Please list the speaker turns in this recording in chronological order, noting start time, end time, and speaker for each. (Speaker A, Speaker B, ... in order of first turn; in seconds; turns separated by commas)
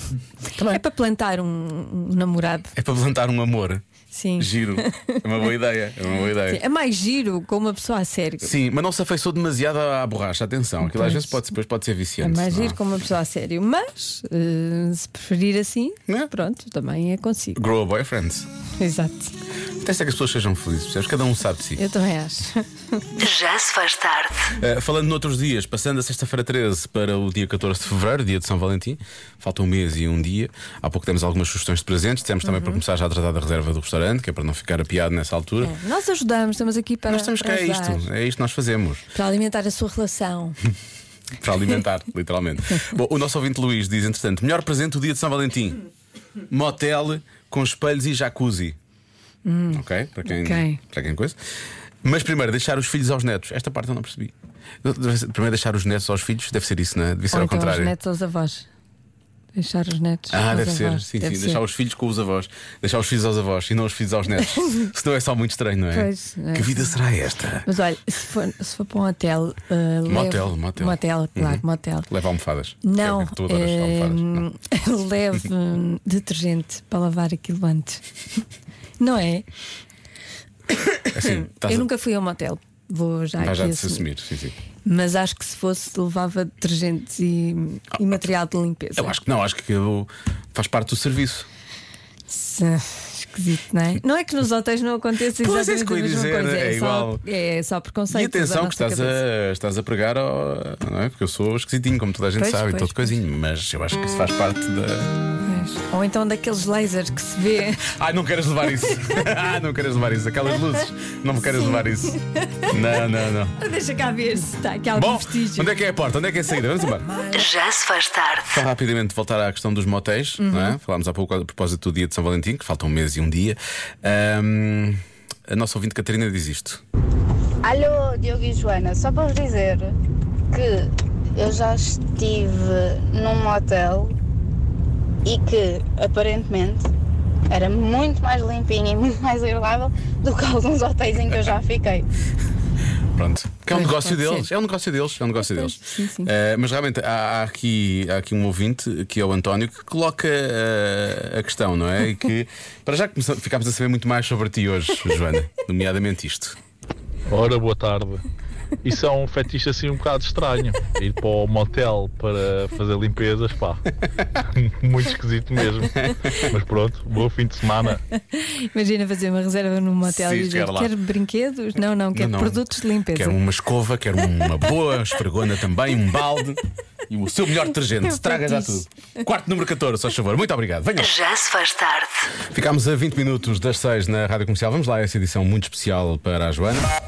Speaker A: 0.6-2.7, Speaker B: 2.8-3.8, Speaker A: 4.1-5.5, Speaker B: 4.4-6.6, Speaker A: 6.4-8.5, Speaker B: 8.4-12.8, Speaker A: 10.8-11.4, Speaker A: 12.2-17.6, Speaker B: 17.6-18.5, Speaker A: 18.8-19.3, Speaker B: 19.8-21.8, Speaker A: 21.8-23.1, Speaker C: 23.2-24.4, Speaker B: 24.6-35.7, Speaker A: 32.4-32.8, Speaker A: 35.6-38.1, Speaker B: 37.1-39.0, Speaker A: 39.1-40.6, Speaker B: 41.4-45.8, Speaker B: 46.5-48.8, Speaker A: 49.5-50.8, Speaker B: 49.7-51.4, Speaker B: 52.0-54.3, Speaker B: 54.8-57.9, Speaker A: 57.3-58.7, Speaker A: 59.5-61.6, Speaker B: 60.3-67.7, Speaker A: 65.9-66.9, Speaker A: 67.7-72.1, Speaker B: 70.1-74.5, Speaker A: 72.8-78.0, Speaker A: 79.0-79.5, Speaker B: 81.1-81.9, Speaker A: 81.2-84.0, Speaker B: 83.4-84.5, Speaker A: 84.8-89.2, Speaker B: 89.0-91.5, Speaker A: 92.3-99.2, Speaker B: 95.4-97.2, Speaker B: 98.1-105.1, Speaker A: 102.4-103.2, Speaker A: 105.4-107.8, Speaker B: 108.0-112.2, Speaker A: 111.6-112.7, Speaker B: 112.7-113.5, Speaker A: 113.6-115.7, Speaker B: 115.0-117.1, Speaker C: 117.3-118.6, Speaker B: 118.5-126.8, Speaker A: 120.4-120.8, Speaker D: 127.6-130.0, Speaker D: 130.5-134.2, Speaker D: 135.2-136.9, Speaker D: 137.5-142.1, Speaker B: 143.2-156.6, Speaker A: 143.7-144.5, Speaker A: 145.4-146.3, Speaker E: 157.3-158.2, Speaker E: 158.8-163.8, Speaker E: 164.6-168.0, Speaker A: 168.3-173.4, Speaker B: 170.1-170.9, Speaker B: 172.1-181.1, Speaker A: 178.2-178.7, Speaker C: 181.0-182.1, Speaker B: 182.5-186.9